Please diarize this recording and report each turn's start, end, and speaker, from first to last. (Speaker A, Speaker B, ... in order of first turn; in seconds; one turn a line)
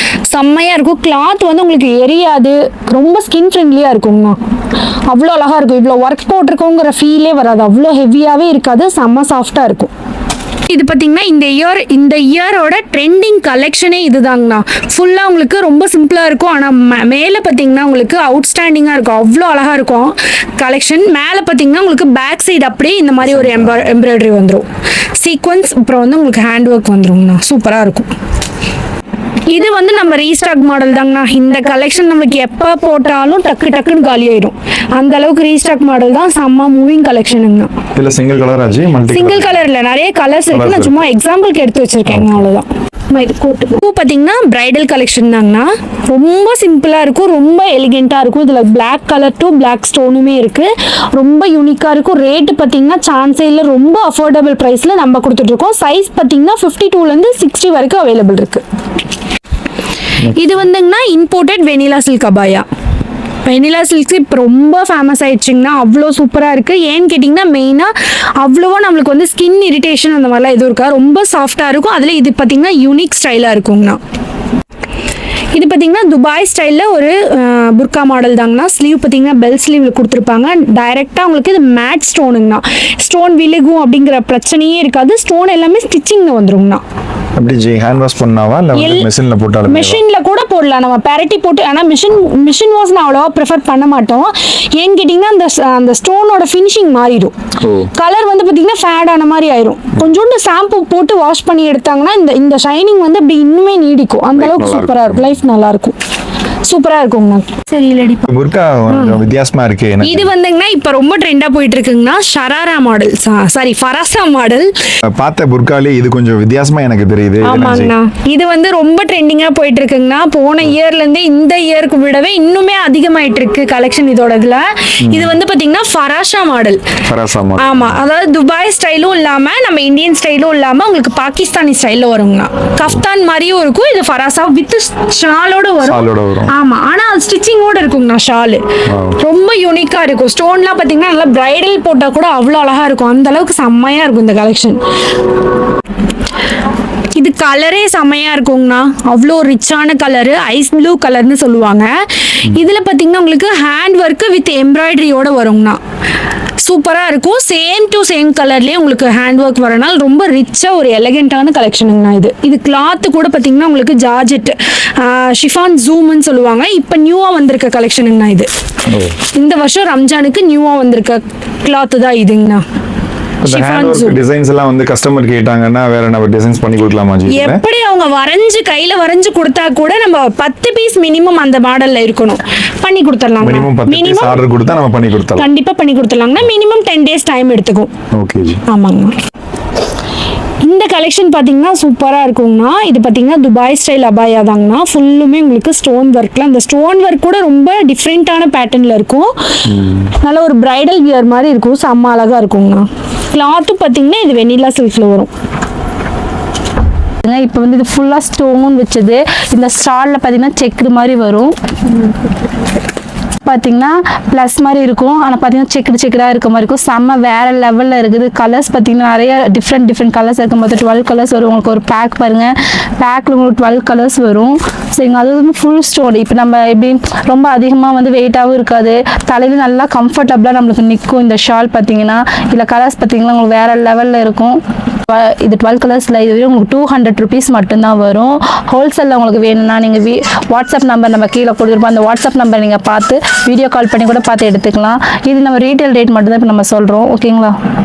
Speaker A: 0.3-4.4
Speaker A: 5.1-9.9
Speaker A: 10.7-24.6
Speaker B: 23.2-23.9
Speaker A: 25.2-28.1
Speaker A: 29.5-37.7
Speaker B: 37.9-39.6
Speaker A: 39.1-58.6
Speaker B: 40.5-40.9
Speaker B: 42.1-42.4
Speaker A: 60.3-62.6
Speaker A: 63.4-74.0
Speaker A: 75.5-86.8
Speaker B: 87.4-90.0
Speaker A: 88.7-89.1
Speaker A: 89.7-97.3
Speaker B: 97.6-97.9
Speaker A: 98.0-105.9
Speaker B: 104.3-105.4
Speaker A: 106.7-108.2
Speaker B: 108.3-110.3
Speaker A: 108.9-109.2
Speaker A: 110.0-114.7
Speaker B: 115.1-117.9
Speaker A: 117.4-126.8
Speaker B: 125.1-125.4
Speaker B: 127.1-128.0
Speaker A: 127.6-138.6
Speaker B: 135.8-136.5
Speaker B: 138.9-139.2
Speaker A: 139.2-144.8
Speaker A: 147.2-151.9
Speaker A: 152.4-155.8
Speaker A: 156.6-168.5
Speaker B: 168.9-169.2
Speaker A: 169.3-172.6
Speaker B: 173.4-177.6
Speaker A: 173.4-174.2
Speaker A: 177.3-184.4
Speaker B: 183.4-185.5
Speaker A: 185.3-187.9
Speaker B: 188.1-188.6
Speaker A: 188.7-189.1
Speaker A: 190.6-199.3
Speaker B: 199.7-200.1
Speaker A: 200.0-205.3
Speaker C: 207.2-212.0
Speaker C: 213.4-247.5